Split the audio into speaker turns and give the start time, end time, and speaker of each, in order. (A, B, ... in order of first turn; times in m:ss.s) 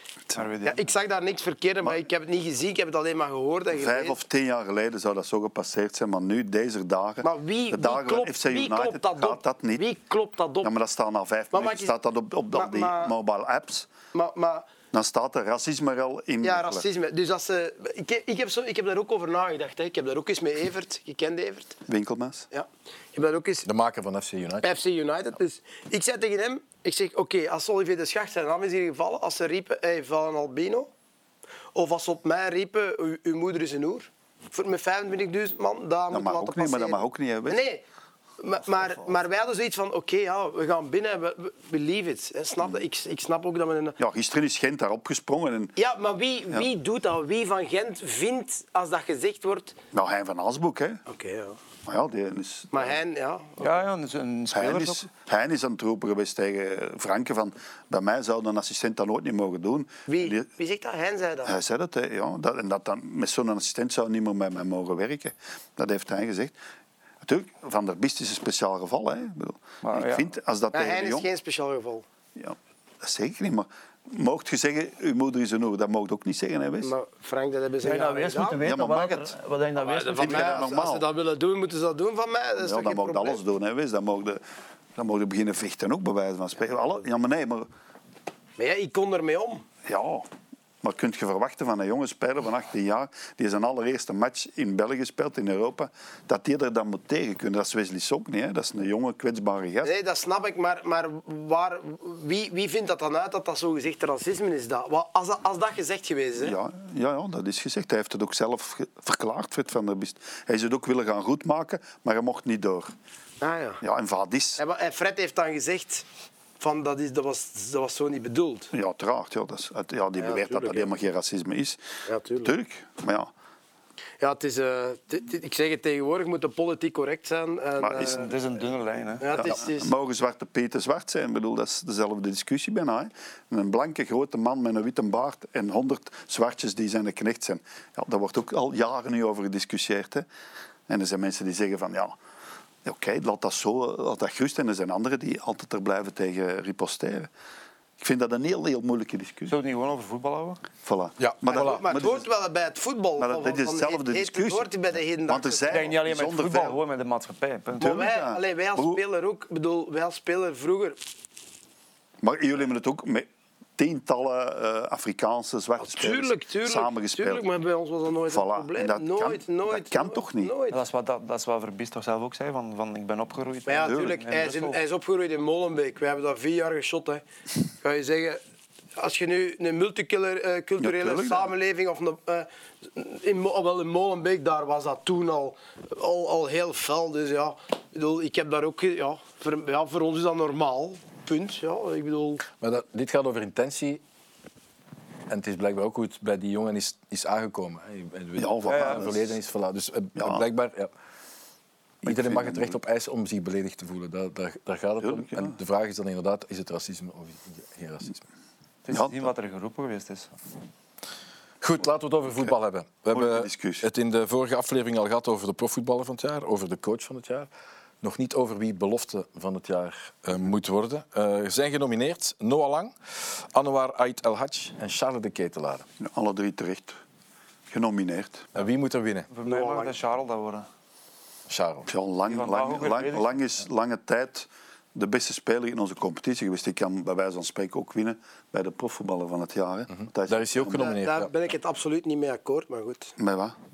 0:00.3-0:00.8 A
0:00.6-0:04.2 B
0:03.7-0:09.8 C
0:07.2-0:10.7 B
0:10.6-0:13.9 C
0:11.5-0:12.0 B
0:12.5-0:13.1 B
0:14.1-0:14.7 B
0:14.9-0:16.8 C
0:16.4-0:21.8 B
0:21.9-0:22.5 C
0:22.5-0:23.7 B
0:23.6-0:24.7 D
0:24.6-0:30.9 B
0:31.8-0:37.8 B
0:36.1-0:37.6 C
0:38.4-0:44.0 B
0:44.0-0:45.8 C
0:45.8-0:49.8 B
0:49.9-0:51.0 C
0:51.1-0:51.6 B
0:51.9-0:53.0 C
0:52.7-0:53.8 B
0:53.6-0:55.0 A
0:54.5-1:00.5 C
1:00.1-1:01.5 B
1:01.4-1:06.6 C
1:07.2-1:11.3 C
1:09.8-1:10.3 A
1:10.7-1:12.0 B
1:12.4-1:16.9 C
1:16.8-1:18.6 B
1:17.8-1:20.6 A
1:18.6-1:19.3 C
1:19.8-1:23.4 B
1:20.2-1:21.1 C
1:22.6-1:24.4 C
1:25.0-1:27.7 C
1:28.6-1:29.6 B
1:29.9-1:30.3 C
1:30.8-1:39.9 C
1:39.8-1:46.6 B
1:46.4-1:52.9 C
1:53.4-1:53.8 B
1:53.8-1:54.6 C
1:54.6-1:56.0 B
1:56.6-1:58.7 B
1:58.7-2:01.8 C
2:00.2-2:00.9 B
2:02.1-2:02.6 B
2:02.4-2:03.3 C
2:04.2-2:08.3 B
2:07.8-2:08.3 C
2:08.0-2:09.3 A
2:09.2-2:09.9 B
2:09.3-2:20.3 C
2:20.9-2:22.2 C
2:22.8-2:27.3 C
2:28.0-2:29.5 C
2:29.5-2:30.6 A
2:30.8-2:32.3 C
2:31.2-2:31.8 D
2:31.5-2:35.8 B
2:33.2-2:34.7 C
2:35.3-2:36.8 C
2:35.7-2:38.1 A
2:37.8-2:39.0 C
2:37.8-2:41.0 B
2:42.2-2:47.5 C
2:45.8-2:50.8 B
2:48.3-2:50.5 C
2:50.7-2:54.8 A
2:53.7-2:57.2 B
2:57.8-2:58.4 B
2:59.0-3:12.5 B
3:00.8-3:01.5 C
3:12.6-3:14.0 D
3:15.3-3:20.9 D
3:18.4-3:19.4 C
3:18.7-3:19.1 A
3:20.2-3:20.4 C
3:22.0-3:28.2 D
3:22.0-3:22.8 C
3:25.0-3:25.6 C
3:28.8-3:30.3 A
3:28.9-3:29.2 C
3:31.6-3:37.5 D
3:33.1-3:33.9 C
3:38.0-3:45.9 D
3:46.0-3:47.0 C
3:47.7-3:48.5 C
3:48.6-3:49.3 D
3:49.3-3:50.7 A
3:49.4-3:50.0 B
3:51.5-3:51.9 D
3:51.9-4:01.0 C
3:52.3-3:53.4 A
4:00.0-4:01.3 D
4:00.7-4:03.2 B
4:03.2-4:03.6 C